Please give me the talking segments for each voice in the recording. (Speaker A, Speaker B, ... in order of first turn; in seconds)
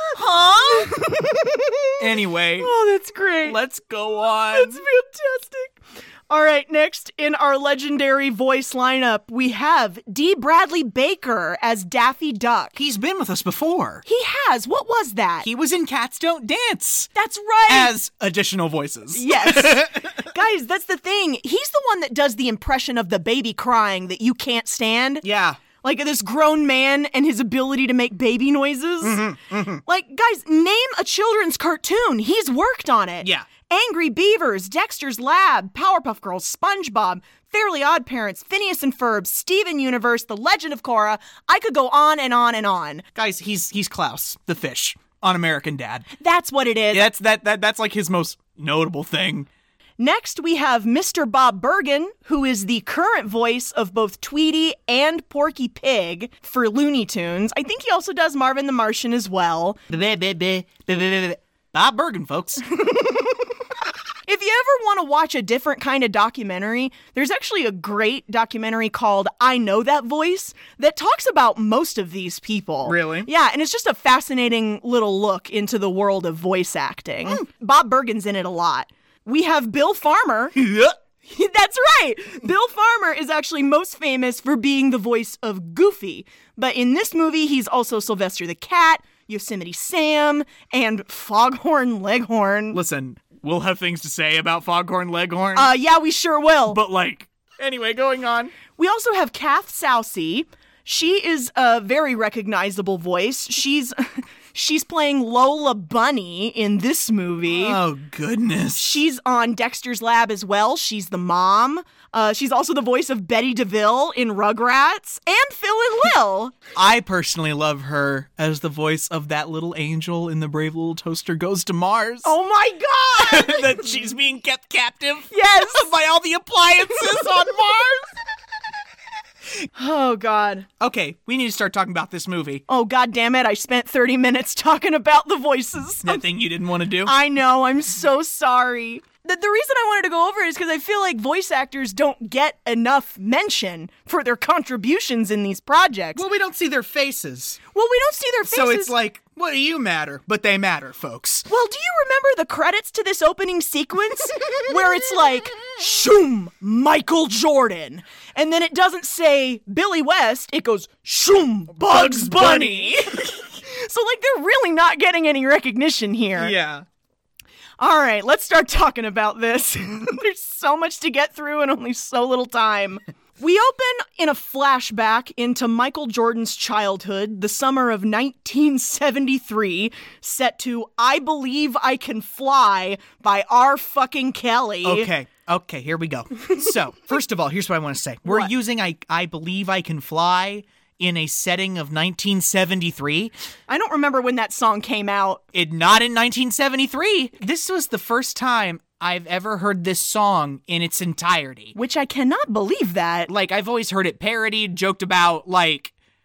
Speaker A: 0.1-1.9, 2.6-3.6, 4.5-5.8, 6.3-12.8, 14.1-15.5, 17.2-17.9, 19.1-25.2, 25.8-29.2, 29.9-43.0, 46.2-47.0, 50.0-59.8, 62.8-63.1, 64.3-80.6, 81.3-92.8, 95.5-96.8, 98.8-107.8, 108.8-116.6, 122.2-123.8, 125.3-125.9, 129.8-130.7, 132.7-136.2, 137.0-146.2, 147.8-148.9, 151.5-166.6, 167.8-185.1, 188.3-188.5, 193.7-195.4, 201.8-203.3
Speaker B: 2.0-2.7, 3.5-4.8, 12.8-14.0, 15.4-17.1, 17.7-20.2, 25.2-25.6, 29.0-29.8, 33.2-33.5, 43.1-46.1, 46.9-49.5, 59.9-62.6, 72.8-73.3, 80.6-81.0, 92.7-95.7, 96.7-98.5, 107.5-109.0, 116.8-122.3, 123.2-128.1, 130.8-132.6, 136.1-137.1, 146.2-147.6, 148.5-151.5, 161.8-163.2, 166.4-166.8, 184.8-193.3, 195.5-201.8, 203.3-205.9